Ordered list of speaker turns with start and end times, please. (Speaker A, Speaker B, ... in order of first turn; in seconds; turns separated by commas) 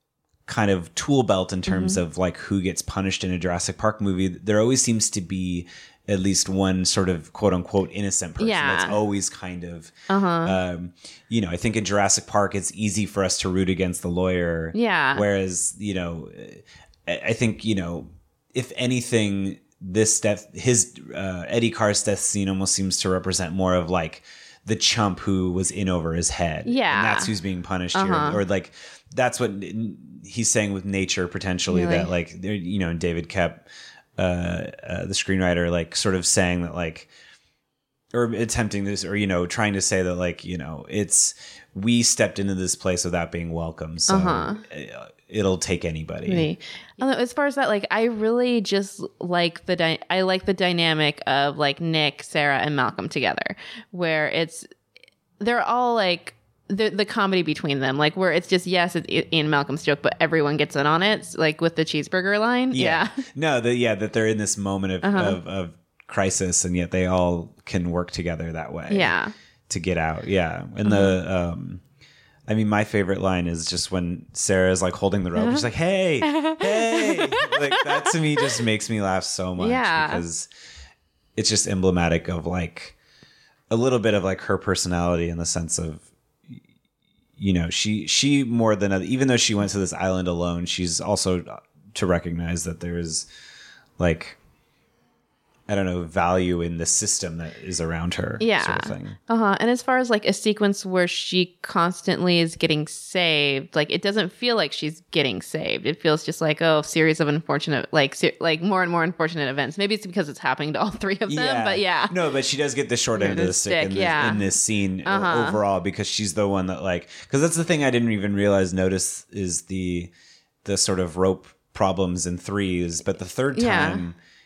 Speaker A: 0.5-33.6, Speaker B: 1.7-2.0, Speaker B: 8.4-8.9, Speaker B: 10.1-10.5, Speaker B: 14.7-15.2, Speaker B: 26.6-27.3, Speaker B: 27.9-28.4, Speaker B: 31.7-32.1, Speaker A: 34.2-37.1, Speaker A: 38.1-46.5, Speaker B: 44.1-44.6, Speaker B: 46.2-54.7, Speaker B: 55.4-63.2, Speaker A: 62.7-69.1, Speaker B: 65.0-65.4, Speaker B: 68.9-69.3, Speaker A: 69.7-71.8, Speaker B: 70.8-71.1, Speaker A: 72.5-80.5, Speaker B: 75.3-75.6, Speaker B: 76.2-78.1, Speaker B: 79.6-80.2, Speaker A: 81.3-83.0, Speaker A: 83.7-86.6, Speaker A: 87.4-93.3, Speaker A: 94.0-94.4, Speaker A: 95.7-99.2, Speaker B: 98.4-112.2, Speaker A: 111.3-120.1, Speaker B: 113.1-114.5, Speaker B: 115.0-115.6, Speaker A: 120.6-124.2, Speaker B: 123.5-124.0